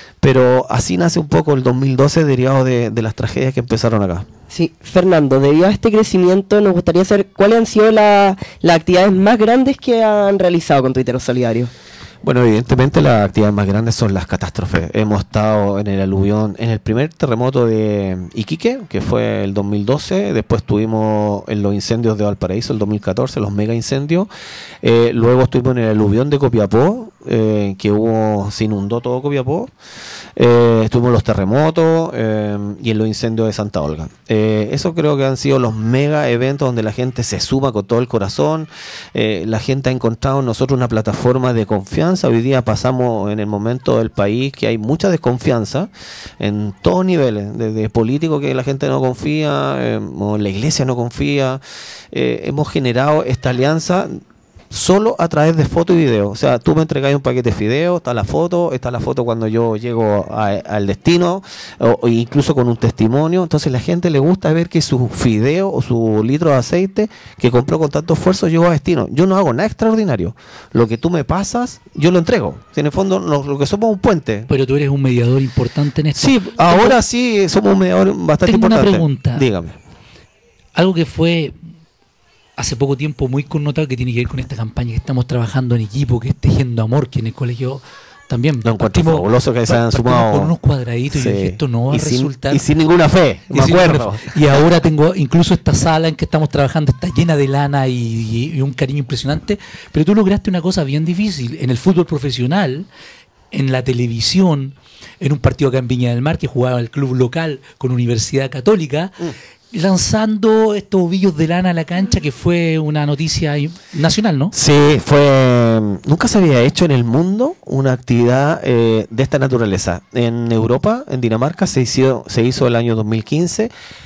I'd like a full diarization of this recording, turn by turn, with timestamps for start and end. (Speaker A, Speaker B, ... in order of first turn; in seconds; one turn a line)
Speaker A: 0.2-4.2
Speaker B: 4.5-11.7
Speaker A: 12.2-24.3
Speaker A: 24.8-29.7
Speaker A: 30.4-51.6
Speaker A: 52.1-54.1
Speaker A: 54.7-74.5
Speaker C: 74.5-77.0
Speaker A: 76.1-79.8
Speaker C: 78.4-79.5
Speaker C: 80.7-81.5
Speaker C: 82.6-92.6
Speaker A: 88.6-90.5
Speaker A: 91.1-94.5
Speaker C: 93.5-102.9
Speaker C: 103.5-114.5
Speaker A: 114.5-123.7